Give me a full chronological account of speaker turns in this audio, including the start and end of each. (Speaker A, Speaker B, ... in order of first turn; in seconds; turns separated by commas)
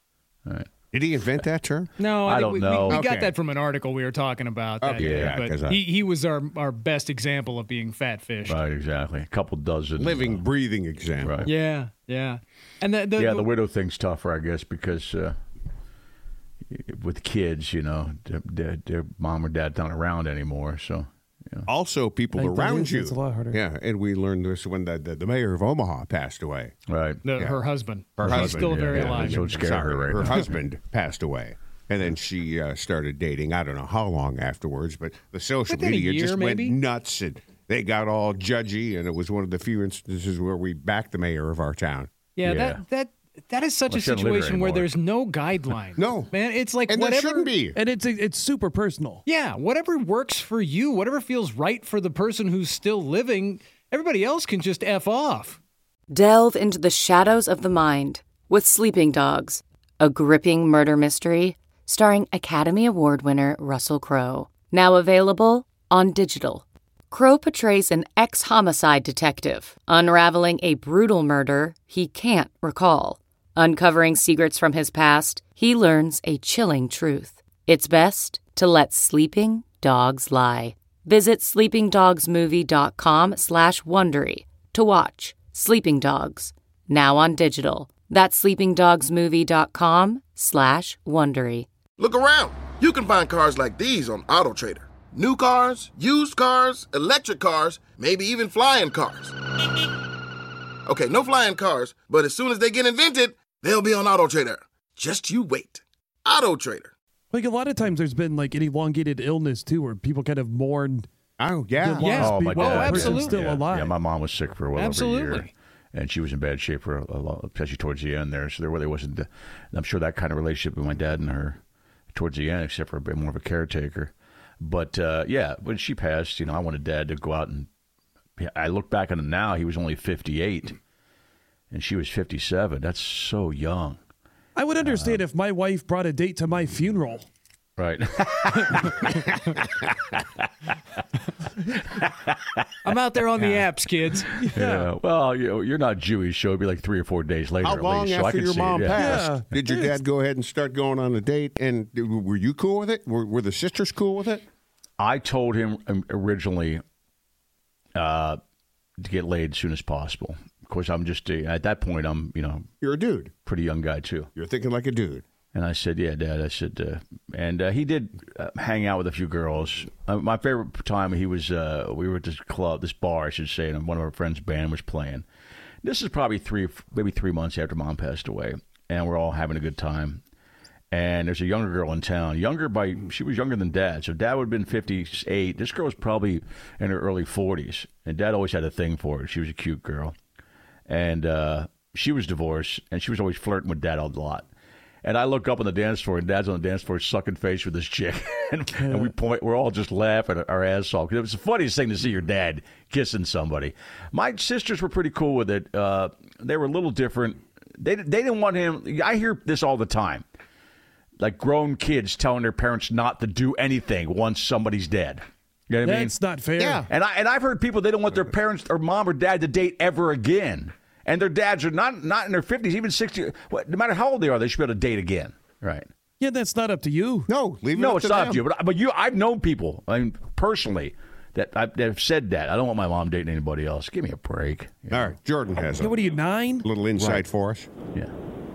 Speaker A: 0.9-1.9, Speaker B: 2.0-8.6, Speaker C: 2.3-3.0, Speaker A: 2.9-3.3, Speaker A: 4.8-5.8, Speaker C: 5.0-5.3, Speaker C: 8.5-10.4, Speaker A: 10.0-11.5, Speaker C: 11.2-11.5, Speaker B: 11.4-13.5, Speaker C: 13.2-15.4, Speaker C: 16.7-21.7, Speaker A: 21.7-26.8, Speaker D: 22.3-23.6, Speaker C: 26.9-27.2, Speaker B: 27.2-29.4, Speaker A: 27.4-27.6, Speaker A: 28.2-42.1, Speaker C: 28.4-30.6, Speaker B: 35.7-36.8, Speaker B: 42.4-47.5, Speaker C: 42.4-42.8, Speaker C: 43.9-44.9, Speaker A: 46.0-46.4, Speaker A: 46.9-47.8, Speaker D: 47.7-49.2, Speaker B: 49.3-55.6, Speaker E: 56.1-91.7, Speaker F: 92.0-99.3, Speaker F: 100.9-106.9, Speaker D: 107.3-111.1, Speaker A: 111.4-112.4, Speaker D: 111.8-113.9, Speaker B: 112.0-113.4, Speaker C: 112.1-121.6, Speaker B: 114.8-115.5, Speaker C: 122.1-127.7, Speaker C: 128.4-130.8, Speaker C: 131.7-134.0, Speaker D: 134.6-137.3, Speaker C: 134.8-135.2, Speaker C: 137.8-138.9, Speaker C: 140.2-140.5, Speaker C: 142.0-142.7, Speaker B: 142.8-144.3, Speaker C: 143.4-143.7, Speaker D: 144.4-144.9, Speaker C: 144.5-149.3, Speaker A: 147.6-154.4, Speaker D: 149.0-150.0, Speaker C: 155.0-156.8, Speaker C: 157.9-158.4, Speaker C: 159.0-162.7, Speaker A: 162.8-163.3, Speaker C: 163.4-164.3, Speaker A: 164.3-165.2, Speaker C: 165.5-175.2, Speaker C: 175.8-180.2, Speaker C: 180.9-190.1, Speaker C: 190.9-194.5, Speaker C: 195.0-210.2, Speaker D: 198.7-199.1, Speaker C: 211.2-216.2, Speaker D: 215.8-216.9, Speaker A: 216.6-216.9, Speaker C: 216.9-225.9, Speaker D: 226.2-227.3, Speaker A: 227.3-228.4, Speaker C: 227.7-235.2, Speaker A: 234.9-236.0, Speaker D: 235.7-236.7, Speaker A: 236.6-237.7